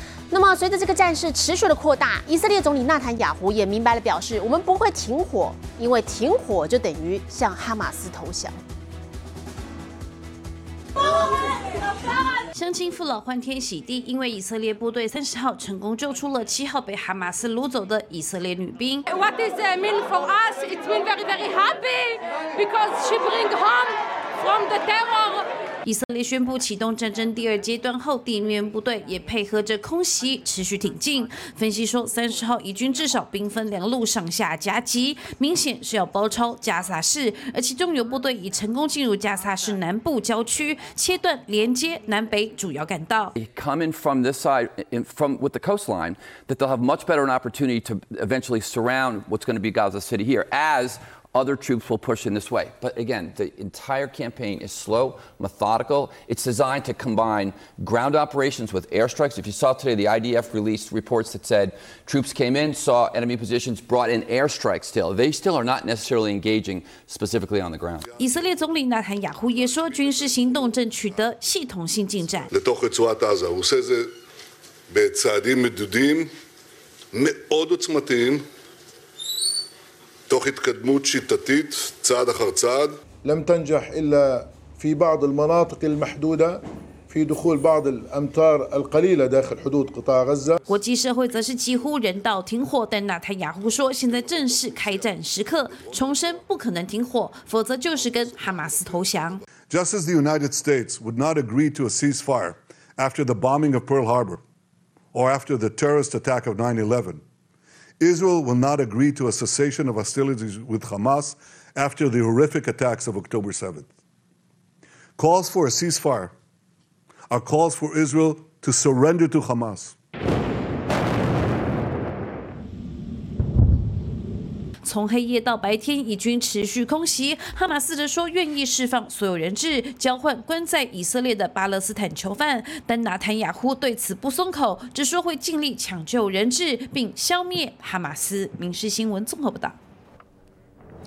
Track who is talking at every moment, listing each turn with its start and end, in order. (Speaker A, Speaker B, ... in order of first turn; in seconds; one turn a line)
Speaker A: 0.3-8.6
Speaker B: 12.5-19.1
Speaker B: 25.8-43.3
Speaker C: 43.4-68.1
Speaker B: 68.2-72.5
Speaker D: 72.5-74.1
Speaker D: 74.9-76.3
Speaker D: 77.1-78.5
Speaker D: 80.3-83.0
Speaker E: 83.2-90.6
Speaker B: 90.7-99.4
Speaker D: 99.7-104.4
Speaker D: 105.1-107.2
Speaker D: 108.0-113.9
Speaker D: 115.2-116.3
Speaker D: 117.3-119.9
Speaker B: 124.8-139.8